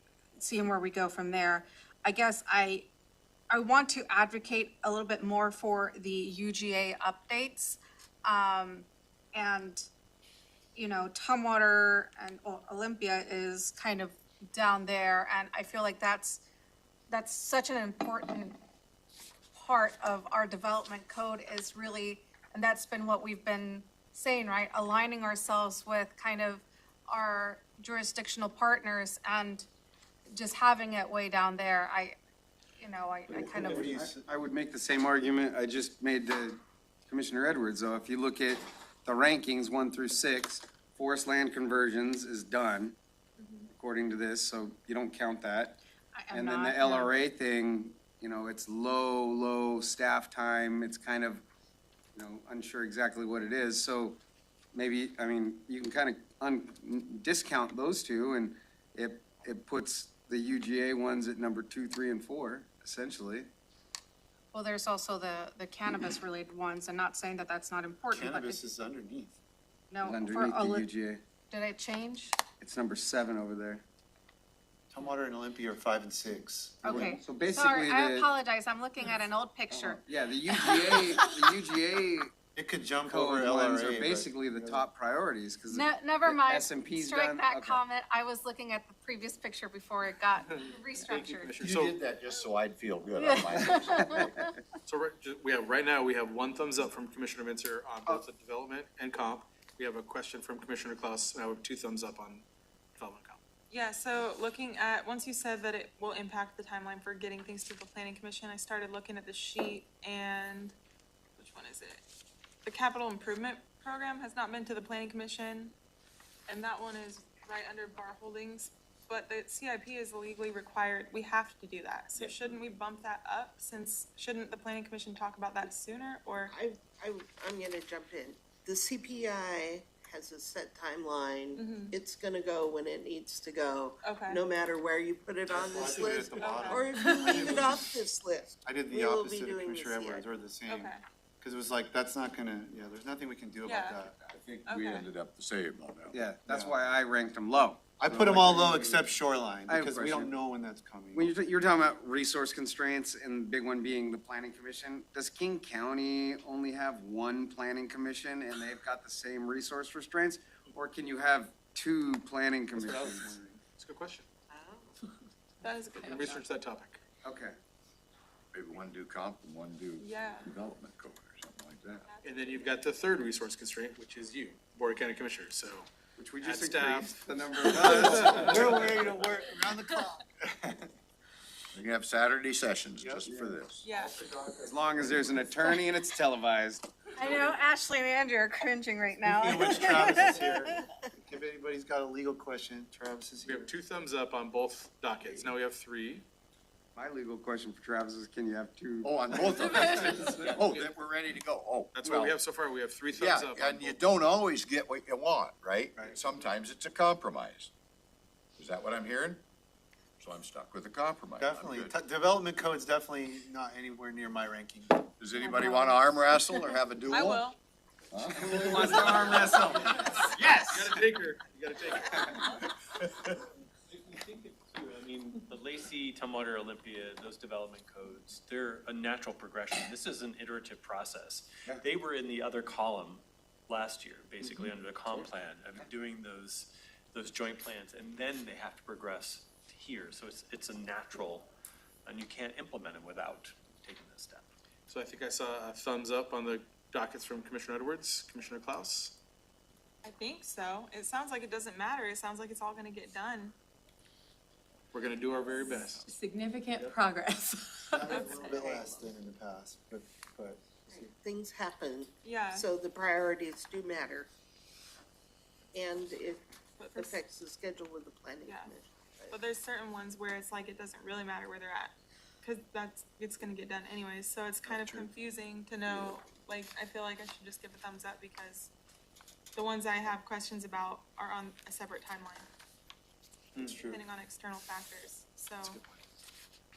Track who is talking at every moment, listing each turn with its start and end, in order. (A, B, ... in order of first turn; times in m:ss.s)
0:00.4-0:02.9 A
0:03.5-0:09.9 A
0:10.7-0:16.4 A
0:17.1-0:18.6 A
0:19.5-0:29.7 A
0:30.3-0:32.1 A
0:32.8-0:34.0 A
0:33.3-0:34.2 B
0:33.6-0:43.0 C
0:43.4-0:43.7 D
0:43.7-0:45.8 C
0:46.1-0:47.1 A
0:46.3-0:51.4 C
0:52.1-0:54.2 C
0:54.7-1:03.5 C
1:04.5-1:08.6 A
1:08.1-1:09.4 B
1:09.9-1:10.9 A
1:10.0-1:11.2 C
1:11.5-1:12.4 A
1:12.6-1:13.8 C
1:14.9-1:17.1 B
1:16.8-1:20.0 A
1:16.8-1:18.3 C
1:19.7-1:22.3 C
1:20.5-1:21.4 A
1:22.5-1:24.8 B
1:23.0-1:27.8 C
1:25.7-1:31.5 A
1:31.0-1:32.0 E
1:31.6-1:34.4 F
1:33.2-1:34.5 A
1:33.8-1:34.3 C
1:34.8-1:42.4 E
1:43.0-1:43.4 E
1:43.7-1:50.8 D
1:51.4-1:52.0 D
1:52.6-1:55.7 D
1:56.5-2:06.5 D
2:06.5-2:20.3 G
2:11.6-2:11.9 D
2:14.0-2:14.4 D
2:15.5-2:18.0 B
2:16.0-2:16.3 E
2:16.3-2:17.4 D
2:18.6-2:24.3 B
2:20.7-2:21.0 D
2:23.6-2:24.0 D
2:24.3-2:26.3 F
2:24.6-2:25.1 D
2:26.1-2:29.1 C
2:26.4-2:26.8 B
2:28.0-2:31.3 B
2:29.7-2:30.3 C
2:31.1-2:43.3 C
2:42.8-2:44.3 E
2:44.5-2:45.0 G
2:45.6-2:46.4 D
2:46.0-2:47.0 E
2:47.2-2:47.5 C
2:48.5-2:52.0 F
2:50.0-2:50.5 D
2:52.0-2:52.9 D
2:52.2-2:55.9 E
2:56.2-2:59.2 C
2:56.4-2:58.9 E
2:58.4-3:00.9 B
3:01.7-3:03.9 F
3:03.0-3:03.2 B
3:03.2-3:03.6 C
3:03.8-3:04.2 D
3:04.5-3:06.8 C
3:07.2-3:10.6 A
3:09.2-3:13.7 B
3:13.4-3:16.2 E
3:16.9-3:19.2 C
3:19.0-3:22.4 F
3:19.7-3:20.5 C
3:20.5-3:20.9 E
3:21.9-3:24.0 E
3:23.2-3:27.7 F
3:25.9-3:26.3 B
3:28.6-3:29.4 F
3:30.2-3:31.9 F
3:31.4-3:35.1 B
3:35.2-3:37.5 F
3:35.4-3:36.0 A
3:37.1-3:37.6 D
3:38.1-3:40.3 F
3:38.3-3:40.4 C
3:40.3-3:42.3 E
3:43.9-4:01.5 H
4:02.0-4:04.4 H
4:04.9-4:09.2 E
4:10.0-4:13.5 D
4:14.9-4:16.0 E
4:16.0-4:18.3 A
4:17.9-4:20.8 B
4:18.1-4:18.5 D
4:18.4-4:19.0 G
4:20.9-4:24.3 G
4:22.2-4:22.7 D
4:25.7-4:29.4 G
4:26.8-4:27.2 D
4:28.4-4:28.7 D
4:29.3-4:38.7 D
4:34.7-4:35.1 B
4:39.5-4:42.5 D
4:43.5-4:44.0 E
4:43.6-4:45.8 D
4:45.6-4:46.0 E